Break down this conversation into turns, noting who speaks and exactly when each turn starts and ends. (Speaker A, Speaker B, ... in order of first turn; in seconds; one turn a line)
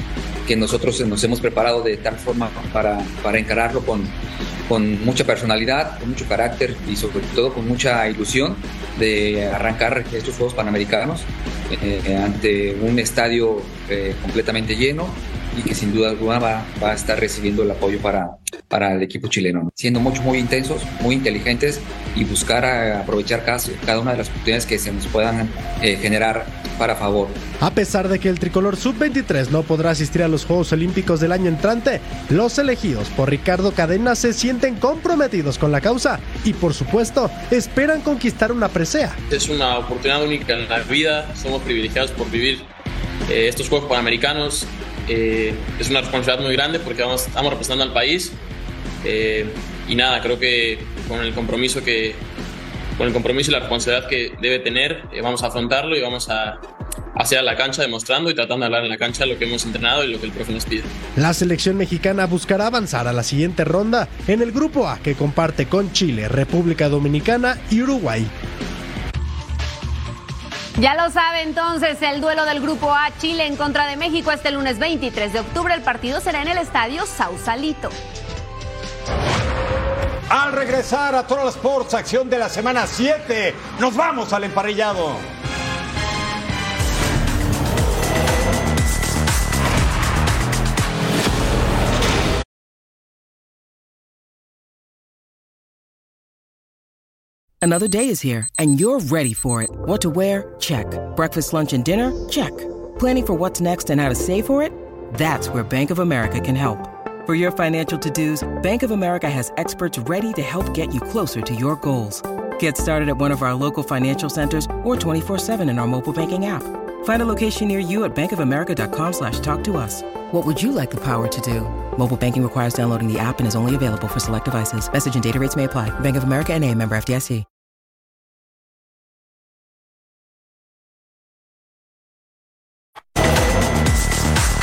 Speaker A: 0.5-27.4
Speaker B: 27.6-39.2
Speaker C: 39.3-42.7
Speaker C: 43.3-48.4
Speaker C: 49.0-52.2
Speaker C: 53.0-56.6
Speaker C: 57.2-60.9
Speaker B: 61.2-68.3
Speaker D: 70.8-77.9
Speaker E: 80.3-85.2
Speaker F: 97.6-127.5